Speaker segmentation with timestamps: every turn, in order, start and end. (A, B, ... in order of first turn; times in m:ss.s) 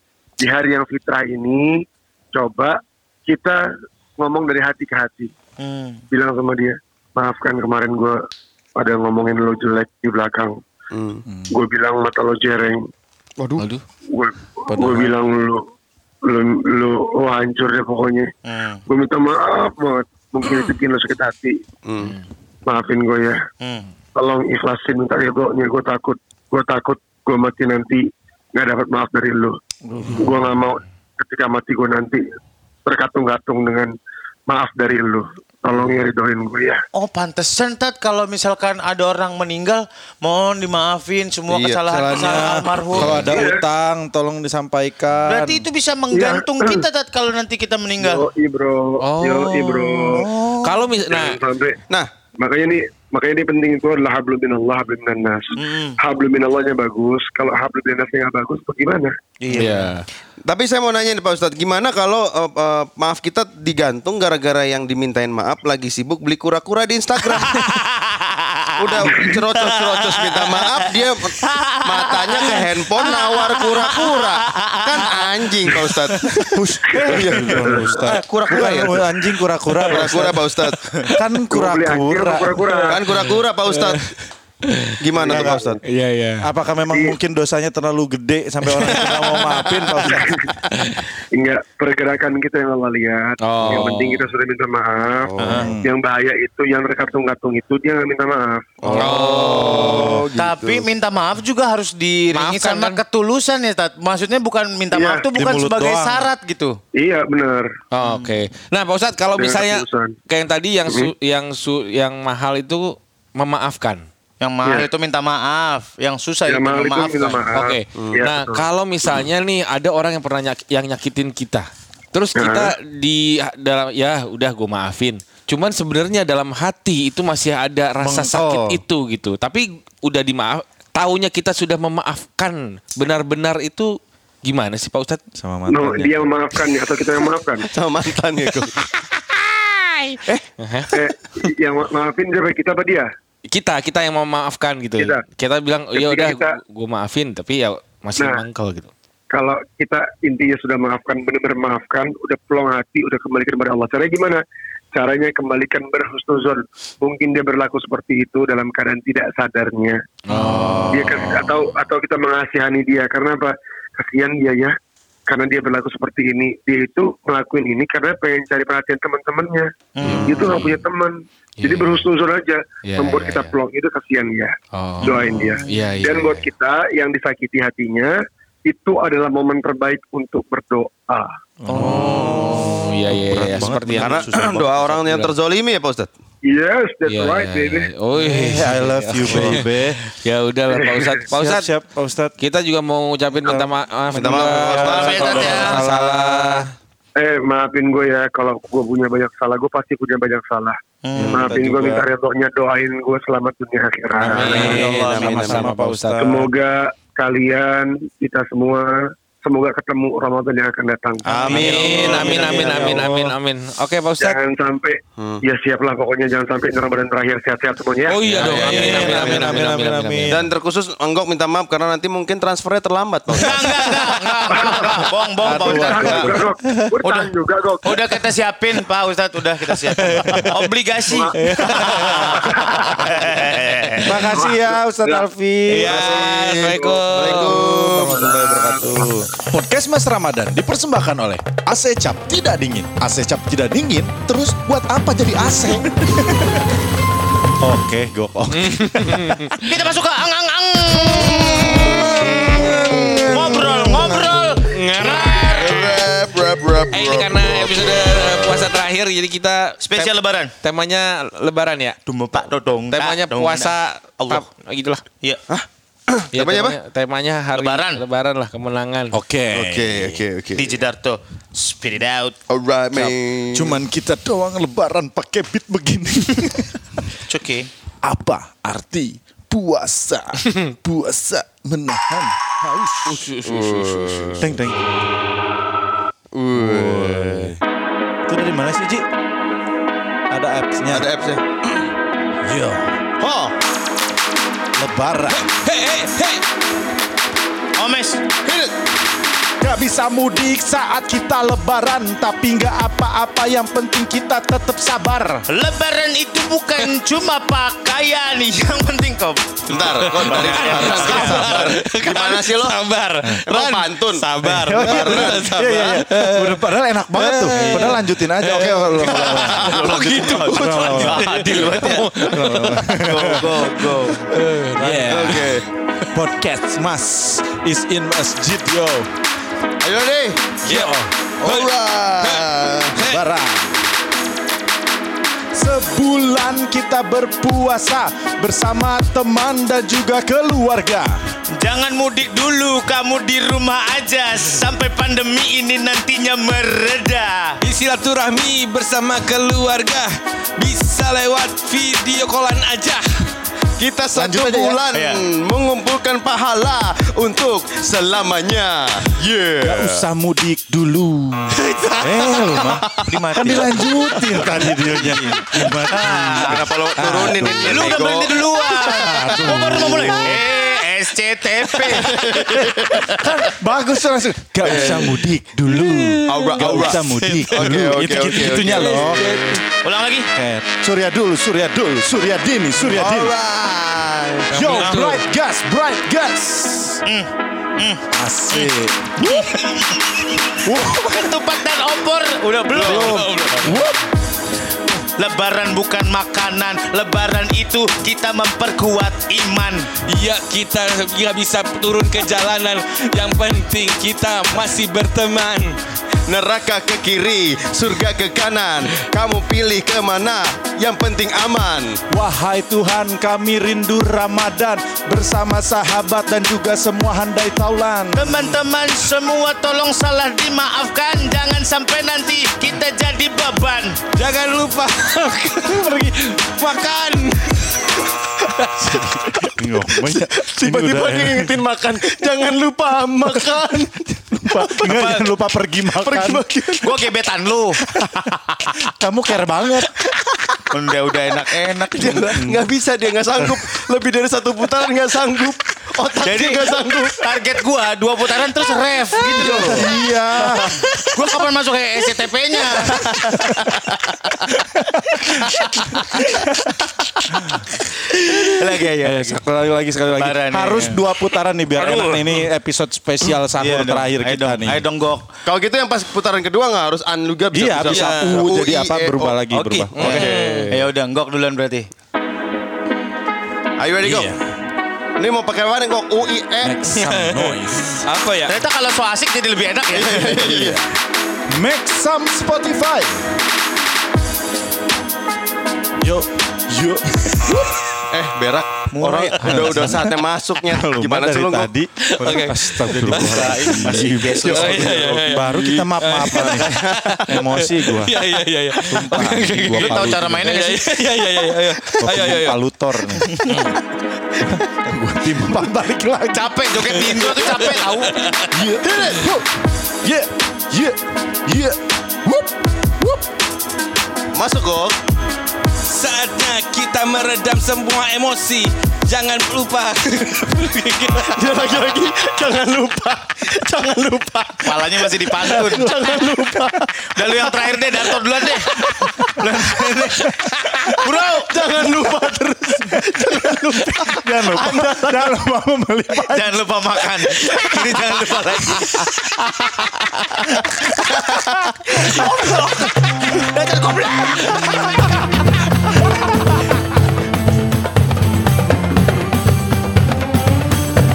0:00.4-0:03.6 A
0:04.2-0:05.3 A
0:05.6-0:06.0 B
0:06.1-0:08.2 A
0:08.8-0:10.6 A
0:10.9-0:11.2 C
0:11.5-0:12.8 A
0:13.4-0:13.7 D
0:13.6-0:13.8 E
0:14.1-0:15.6 A
0:14.7-0:15.2 D
0:16.2-0:18.3 A
0:18.4-0:18.8 B
0:18.9-0:21.6 A
0:21.8-0:22.2 C
0:22.7-0:23.4 A
0:23.6-0:23.9 B
0:24.2-0:28.0 A
0:28.5-0:29.6 A
0:29.9-0:30.3 D
0:30.1-0:32.2 A
0:32.9-0:33.9 A
0:34.5-0:36.8 A
0:36.9-0:43.5 B
0:41.5-0:43.2 C
0:41.9-0:45.7 D
0:43.2-0:43.6 A
0:45.3-0:48.3 B
0:46.1-0:46.8 A
0:48.0-0:50.3 A
0:49.0-0:51.4 E
0:50.1-0:50.8 B
0:51.0-0:51.8 A
0:52.4-0:59.1 A
0:55.6-0:56.0 B
0:59.4-0:59.9 B
0:59.5-1:00.0 E
1:00.5-1:07.8 C
1:07.3-1:15.9 B
1:08.8-1:16.5 C
1:16.5-1:20.4 D
1:16.9-1:18.1 A
1:17.0-1:19.3 C
1:19.8-1:20.3 E
1:19.9-1:20.8 C
1:21.1-1:22.6 D
1:21.5-1:23.0 A
1:22.9-1:24.1 C
1:23.1-1:25.0 E
1:25.0-1:25.8 C
1:25.2-1:25.8 A
1:25.3-1:25.7 D
1:25.8-1:26.5 E
1:26.4-1:30.5 D
1:26.9-1:27.2 A
1:28.8-1:29.6 E
1:30.1-1:30.5 A
1:31.3-1:39.1 A
1:33.4-1:34.3 E
1:35.3-1:35.7 C
1:35.4-1:35.7 B
1:35.6-1:35.9 D
1:38.8-1:40.9 C
1:38.9-1:40.2 E
1:38.9-1:46.8 B
1:39.6-1:40.2 D
1:42.3-1:43.0 E
1:44.9-1:45.3 A
1:45.3-1:46.3 D
1:47.0-1:47.7 A
1:47.9-1:54.0 E
1:49.4-1:50.2 A
1:54.4-1:57.5 B
1:54.6-1:54.9 A
1:56.5-1:58.7 A
1:57.5-2:15.2 E
2:02.4-2:02.7 A
2:08.0-2:08.8 D
2:15.4-2:16.2 D
2:15.7-2:17.7 A
2:17.7-2:18.8 C
2:18.8-2:20.9 E
2:20.9-2:23.1 A
2:23.5-2:28.9 E
2:25.9-2:26.6 A
2:28.2-2:28.4 A
2:29.3-2:34.4 A
2:34.9-2:40.0 A
2:40.3-2:41.6 E
2:40.3-2:41.2 D
2:40.9-2:44.8 A
2:45.3-2:49.7 A
2:50.0-2:50.4 B
2:50.0-2:50.8 E
2:50.2-2:58.1 A
2:51.6-2:52.0 E
2:52.8-2:53.5 E
2:54.7-2:56.5 E
2:55.0-2:55.9 B
2:58.7-3:01.3 A
3:01.6-3:05.3 D
3:01.7-3:05.3 E
3:01.8-3:02.7 C
3:03.4-3:06.1 C
3:06.5-3:07.9 A
3:07.1-3:11.7 E
3:08.2-3:10.0 D
3:10.7-3:11.2 A
3:11.3-3:12.4 D
3:12.4-3:16.7 E
3:13.4-3:13.7 D
3:14.1-3:15.7 C
3:14.3-3:16.7 D
3:14.8-3:15.8 B
3:17.2-3:24.9 A
3:21.0-3:21.4 B
3:21.2-3:22.0 D
3:21.2-3:21.5 C
3:24.2-3:26.3 E
3:24.3-3:26.5 D
3:24.4-3:25.7 C
3:24.5-3:24.9 B
3:26.2-3:32.7 A
3:31.3-3:33.0 C
3:31.3-3:33.4 D
3:31.5-3:34.4 E
3:34.2-3:38.2 A
3:38.1-3:40.5 E
3:38.3-3:39.7 C
3:38.3-3:40.5 D
3:40.3-3:44.0 C
3:43.4-3:46.4 B
3:44.5-3:48.1 A
3:45.4-3:46.9 D
3:47.0-3:47.3 B
3:47.8-3:54.2 B
3:50.0-3:50.7 D
3:51.0-3:51.6 A
3:51.4-3:52.4 E
3:51.4-3:52.4 D
3:52.6-3:52.9 A
3:54.0-3:56.1 D
3:54.3-3:55.3 A
3:55.7-3:58.3 E
3:55.8-3:59.2 C
3:58.0-3:59.1 A
3:58.2-4:06.6 D
4:07.6-4:09.6 D
4:08.5-4:09.6 E
4:09.6-4:12.4 B
4:11.3-4:14.4 C
4:13.2-4:15.4 B
4:14.6-4:16.2 E
4:15.5-4:18.1 C
4:16.9-4:22.0 E
4:19.8-4:20.5 B
4:22.1-4:24.5 B
4:22.9-4:25.0 E
4:25.5-4:26.8 C
4:26.3-4:29.2 E
4:27.6-4:28.0 B
4:29.1-4:30.2 D
4:29.5-4:30.8 C
4:30.6-4:32.4 B
4:32.5-4:33.8 C
4:33.5-4:36.8 D
4:37.3-4:37.7 B
4:38.0-4:43.2 D
4:43.0-4:44.6 E
4:43.4-4:44.5 C
4:44.4-4:44.8 D
4:46.3-4:47.5 C
4:46.5-4:47.6 D
4:48.3-4:49.1 D
4:50.3-4:51.0 D
4:50.9-4:51.8 C
4:52.4-4:53.0 D
4:53.2-4:53.5 C
4:54.8-4:55.5 D
4:55.5-4:56.4 E
4:57.8-4:58.2 B
4:58.5-4:58.7 C
4:59.6-5:05.4 D
5:05.5-5:11.8 B
5:09.7-5:12.8 C
5:09.7-5:26.1 E
5:13.4-5:16.0 C
5:14.4-5:23.6 D
5:19.1-5:24.3 C
5:19.4-5:22.1 B
5:24.8-5:25.6 D
5:24.9-5:25.7 C
5:26.1-5:29.1 D
5:29.8-5:30.6 C
5:30.6-5:31.1 D
5:30.6-5:33.2 E
5:31.4-5:32.9 C
5:33.0-5:33.8 D
5:35.5-5:41.2 D
5:41.6-5:47.6 B
5:47.6-5:53.3 E
5:53.8-6:00.1 C
5:54.1-5:54.8 D
5:54.9-5:55.2 B
5:59.6-6:02.8 D
6:01.7-6:03.8 B
6:02.6-6:03.2 C
6:03.4-6:08.0 D
6:05.9-6:06.6 B
6:06.2-6:08.4 C
6:07.6-6:13.1 B
6:08.6-6:10.4 D
6:11.9-6:13.3 C
6:12.1-6:19.2 D
6:14.6-6:15.1 C
6:15.7-6:17.8 E
6:16.3-6:19.6 C
6:19.1-6:20.3 B
6:20.3-6:23.3 D
6:22.8-6:24.5 C
6:24.5-6:27.0 D
6:24.5-6:25.2 E
6:27.0-6:28.1 B
6:28.1-6:29.8 D
6:29.2-6:33.2 B
6:30.6-6:31.4 D
6:32.8-6:34.1 D
6:32.8-6:33.2 C
6:32.8-6:33.8 E
6:35.2-6:39.9 B
6:40.1-6:45.8 E
6:46.3-6:52.0 C
6:52.1-6:58.4 D
6:58.1-7:04.0 B
7:04.2-7:09.5 E
7:09.6-7:11.6 D
7:10.5-7:13.9 C
7:13.5-7:16.5 D
7:14.5-7:15.2 C
7:14.8-7:15.2 B
7:16.0-7:17.0 C
7:16.8-7:17.8 B
7:17.9-7:20.1 D
7:20.7-7:22.4 B
7:21.9-7:27.2 C
7:22.3-7:22.6 D
7:26.2-7:29.9 B
7:29.2-7:30.7 C
7:29.4-7:30.9 D
7:30.6-7:33.5 B
7:32.9-7:34.1 C
7:33.2-7:33.7 D
7:34.9-7:37.7 D
7:35.4-7:36.0 B
7:38.2-7:39.4 B
7:38.2-7:44.9 D
7:40.1-7:41.0 B
7:41.8-7:42.4 B
7:43.6-7:45.3 B
7:45.4-7:49.4 C
7:47.5-7:50.2 D
7:47.8-7:48.5 E
7:49.5-7:51.9 B
7:50.0-7:50.8 E
7:50.0-7:50.7 C
7:53.8-7:54.3 C
7:54.0-7:54.4 D
7:55.2-7:56.8 C
7:56.6-7:58.0 D
7:56.9-7:58.6 E
7:58.4-8:00.4 B
7:59.9-8:00.8 C
8:00.4-8:00.8 D
8:01.5-8:03.3 D
8:06.0-8:07.8 D
8:08.1-8:08.8 C
8:08.9-8:10.0 B
8:09.0-8:10.2 D
8:09.4-8:11.7 C
8:10.7-8:18.1 D
8:12.1-8:22.6 E
8:12.2-8:15.0 B
8:14.4-8:15.2 C
8:16.3-8:17.2 C
8:18.8-8:20.5 D
8:19.7-8:20.9 B
8:22.0-8:23.7 D
8:23.2-8:23.7 B
8:24.4-8:27.2 D
8:26.3-8:28.2 B
8:27.0-8:28.5 E
8:28.5-8:29.5 D
8:28.8-8:29.3 C
8:30.0-8:33.2 D
8:34.3-8:35.0 C
8:35.9-8:42.0 E
8:41.2-8:44.9 C
8:44.6-8:46.0 B
8:45.4-8:46.9 D
8:45.8-8:46.8 C
8:47.0-8:51.5 B
8:48.8-8:49.6 D
8:51.3-8:54.9 C
8:52.8-8:56.6 D
8:53.2-8:54.1 B
8:56.3-9:01.2 B
9:01.7-9:02.7 D
9:01.9-9:04.8 B
9:06.1-9:06.6 D